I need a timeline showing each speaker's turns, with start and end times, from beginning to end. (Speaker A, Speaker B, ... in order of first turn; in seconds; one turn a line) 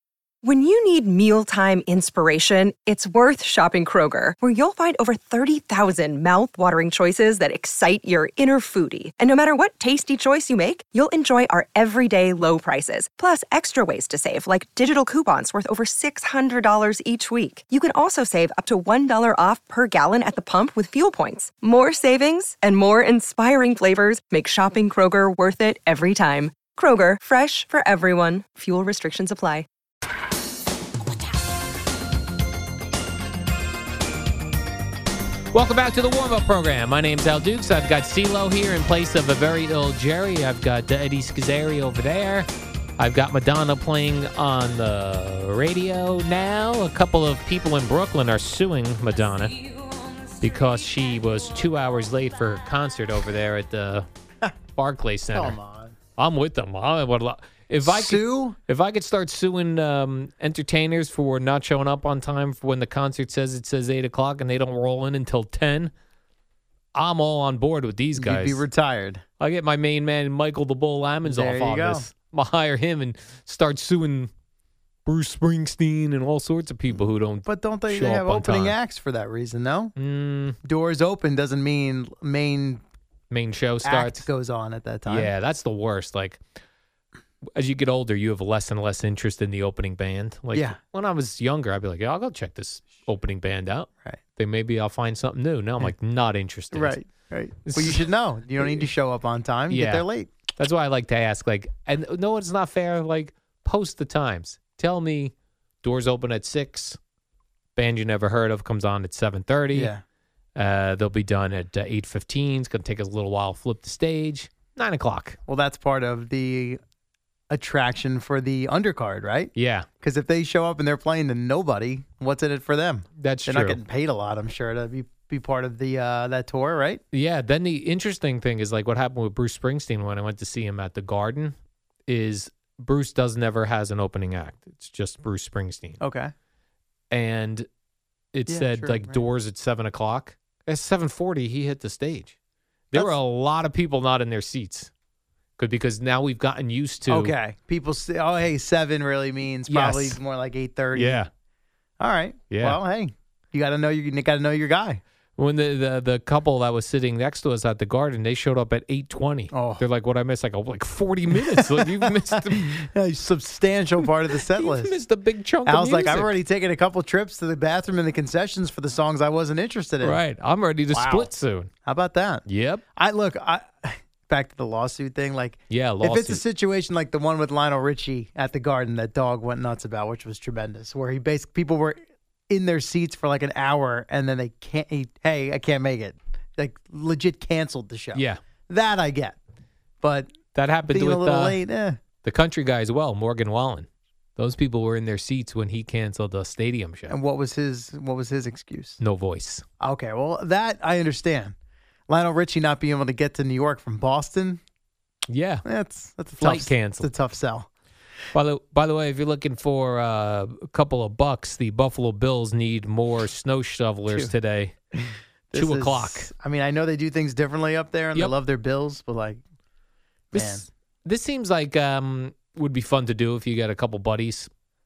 Speaker A: 0.4-29.7
Speaker B: 35.5-49.6
Speaker B: 50.4-54.1
Speaker B: 54.8-55.6
Speaker C: 55.3-56.0
Speaker B: 56.2-65.9
Speaker C: 57.8-58.6
Speaker B: 67.0-68.6
Speaker C: 68.2-69.2
Speaker B: 69.4-74.3
Speaker C: 71.2-72.1
Speaker B: 75.1-78.8
Speaker C: 77.4-80.0
Speaker B: 80.0-80.6
Speaker C: 80.6-82.8
Speaker B: 83.3-84.3
Speaker C: 83.8-85.3
Speaker B: 85.1-86.4
Speaker B: 87.5-97.0
Speaker C: 90.5-90.8
Speaker C: 96.7-100.3
Speaker B: 97.7-98.1
Speaker B: 98.6-98.9
Speaker B: 99.7-107.0
Speaker B: 107.8-109.9
Speaker C: 109.7-110.0
Speaker B: 110.6-115.4
Speaker C: 115.5-116.8
Speaker C: 117.5-127.0
Speaker B: 119.5-119.9
Speaker B: 123.2-123.8
Speaker B: 127.1-131.6
Speaker B: 132.1-136.0
Speaker C: 136.0-136.3
Speaker B: 137.1-137.7
Speaker B: 138.3-142.3
Speaker C: 138.5-139.2
Speaker B: 142.9-144.9
Speaker B: 145.6-147.3
Speaker C: 147.1-151.2
Speaker B: 149.7-150.2
Speaker B: 150.9-151.3
Speaker C: 152.0-155.0
Speaker B: 152.5-152.8
Speaker B: 155.4-162.9
Speaker C: 159.5-159.8
Speaker C: 161.3-164.9
Speaker B: 164.5-166.3
Speaker C: 165.7-170.2
Speaker B: 170.0-171.7
Speaker C: 170.9-171.3
Speaker C: 171.8-172.4
Speaker B: 172.5-172.8
Speaker C: 173.0-182.0
Speaker B: 175.7-176.4
Speaker C: 182.5-189.4
Speaker B: 188.1-188.4
Speaker C: 190.0-190.3
Speaker B: 190.5-191.6
Speaker C: 190.9-192.0
Speaker B: 192.2-197.2
Speaker C: 197.1-199.0
Speaker B: 199.0-199.6
Speaker C: 199.8-201.5
Speaker C: 202.1-204.6
Speaker B: 205.3-205.7
Speaker C: 205.7-207.7
Speaker B: 206.4-207.1
Speaker B: 208.3-214.8
Speaker C: 214.9-219.4
Speaker B: 215.5-216.3
Speaker B: 220.3-224.5
Speaker C: 220.3-220.6